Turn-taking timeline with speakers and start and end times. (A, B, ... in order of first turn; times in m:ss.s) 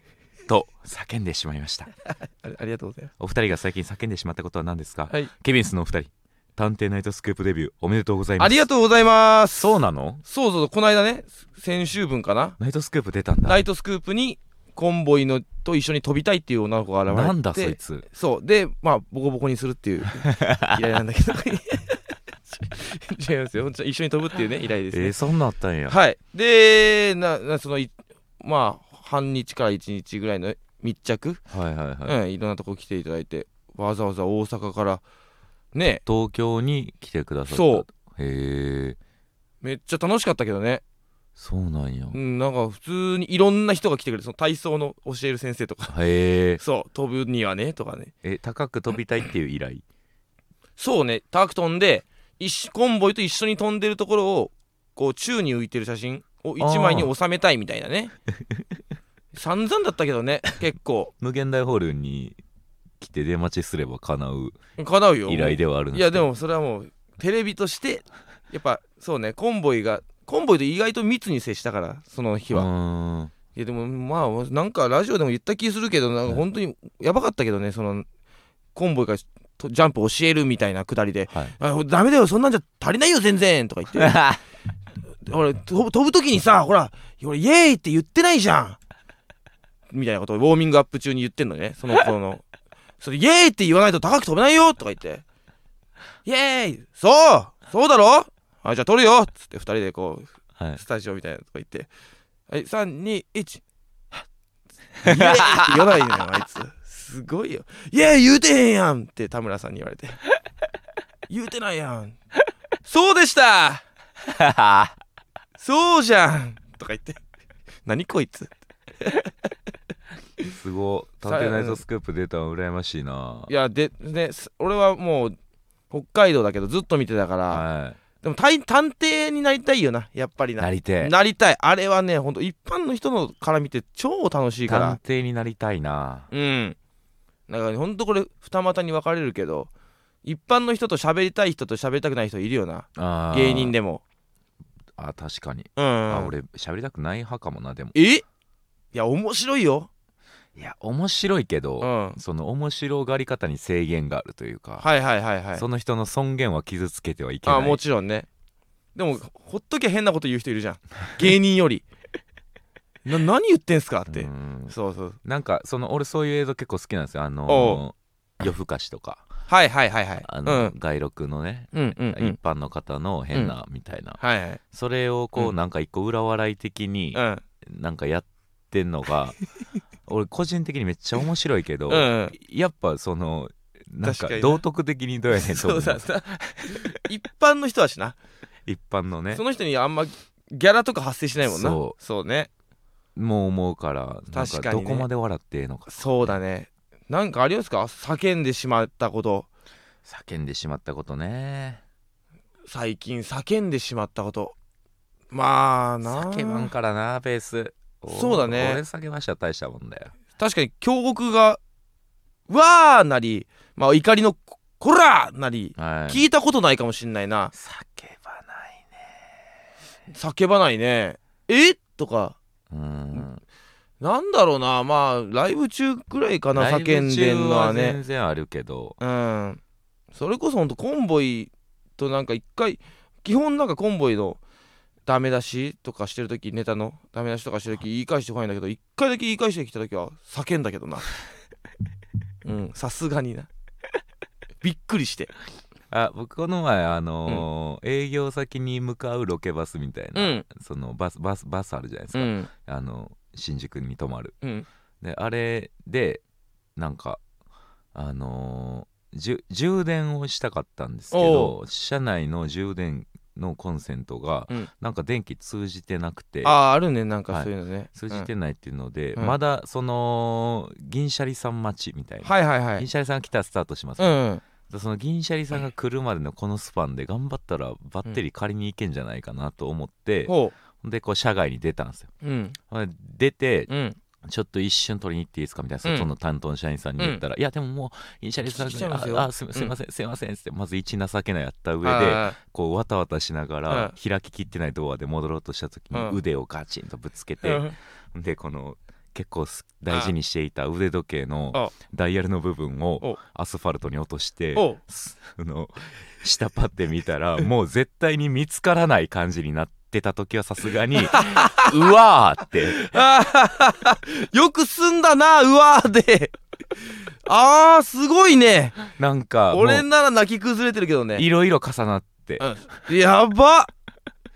0:00.5-0:01.9 A
0:02.4-0:03.1 B
0:03.2-0:08.6 A
0:08.4-0:09.7 B
0:09.6-0:10.2 A
0:10.3-0:12.6 B
0:12.6-0:13.6 A
0:13.5-0:25.1 B
0:17.1-0:18.1 A
0:20.2-0:20.8 A
0:24.9-0:26.0 A
0:25.9-0:31.4 B
0:31.5-0:32.2 A
0:32.0-0:35.0 B
0:35.7-0:36.0 B
0:36.0-0:39.0 A
0:37.5-0:37.8 B
0:39.6-0:40.8 B
0:41.4-0:42.2 A
0:42.1-0:45.9 B
0:45.9-0:46.6 A
0:46.6-0:48.1 B
0:48.2-0:49.8 A
0:50.8-0:58.1 B
0:56.6-0:57.1 A
0:59.3-1:01.1 B
1:01.2-1:02.4 A
1:03.0-1:04.6 A
1:04.8-1:12.7 B
1:05.3-1:06.3 A
1:12.5-1:13.3 A
1:13.6-1:18.1 B
1:18.8-1:24.2 B
1:23.9-1:24.4 A
1:25.2-1:28.8 B
1:29.9-1:32.4 B
1:33.0-1:35.2 B
1:36.2-1:41.9 B
1:42.5-1:43.6 B
1:45.0-1:46.0 A
1:45.0-1:50.2 B
1:51.3-1:52.2 B
1:52.9-1:53.8 B
1:54.3-1:55.0 A
1:55.6-1:57.2 B
1:57.8-1:59.5 B
2:00.5-2:03.5 A
2:01.2-2:01.8 B
2:03.5-2:05.4 B
2:05.9-2:07.6 B
2:07.5-2:08.0 A
2:08.2-2:15.0 B
2:10.6-2:11.1 A
2:14.7-2:16.3 A
2:16.3-2:16.8 B
2:17.5-2:19.7 B
2:20.2-2:24.0 B
2:23.0-2:23.7 A
2:25.0-2:28.0 A
2:25.8-2:26.3 B
2:28.0-2:28.2 B
2:28.9-2:29.9 B
2:30.6-2:34.9 A
2:31.8-2:32.2 B
2:34.8-2:35.6 B
2:35.5-2:37.8 A
2:37.5-2:38.3 B
2:39.0-2:41.8 B
2:43.0-2:45.2 B
2:44.1-2:49.3 A
2:47.5-2:47.8 B
2:49.5-2:50.8 B
2:50.2-2:54.2 A
2:51.7-2:52.4 B
2:54.2-2:54.6 B
2:54.7-2:59.4 A
2:57.1-2:57.4 B
3:00.1-3:07.0 A
3:01.9-3:02.3 B
3:04.0-3:04.6 B
3:05.3-3:08.2 B
3:08.7-3:09.4 A
3:09.3-3:12.5 B
3:11.4-3:12.0 A
3:13.2-3:16.4 A
3:14.3-3:15.1 B
3:15.9-3:19.5 B
3:20.0-3:21.8 A
3:22.7-3:24.5 B
3:25.3-3:26.7 B
3:26.0-3:30.1 A
3:28.1-3:28.8 B
3:30.4-3:31.6 B
3:32.5-3:37.5 B
3:35.8-3:36.2 A
3:37.5-3:39.0 A
3:40.1-3:42.4 B
3:42.7-3:43.4 A
3:44.0-3:48.0 B
3:46.6-3:49.0 A
3:49.0-3:49.6 B
3:50.1-3:54.4 B
3:55.1-4:01.1 B
4:02.4-4:03.5 B
4:04.6-4:05.3 B
4:05.9-4:14.4 A
4:10.2-4:10.4 B
4:12.1-4:12.5 B
4:15.0-4:16.2 A
4:16.8-4:17.2 A
4:17.9-4:26.6 A
4:21.1-4:21.6 B
4:26.4-4:28.3 B
4:27.3-4:34.2 A
4:32.2-4:32.9 B
4:34.0-4:34.4 B
4:34.7-4:42.1 A
4:40.3-4:40.6 B
4:42.2-4:42.6 B
4:42.7-4:43.7 A
4:43.7-4:44.0 B
4:44.2-5:12.8 A
4:48.5-4:49.7 B
4:51.8-4:52.4 B
4:53.7-4:54.0 B
4:55.9-4:56.2 B
4:57.4-4:57.7 B
5:04.6-5:04.8 B
5:11.0-5:11.7 B
5:12.7-5:16.4 B
5:17.2-5:18.8 B
5:18.9-5:19.9 A
5:19.5-5:21.2 B
5:21.2-5:22.8 A
5:22.4-5:23.7 B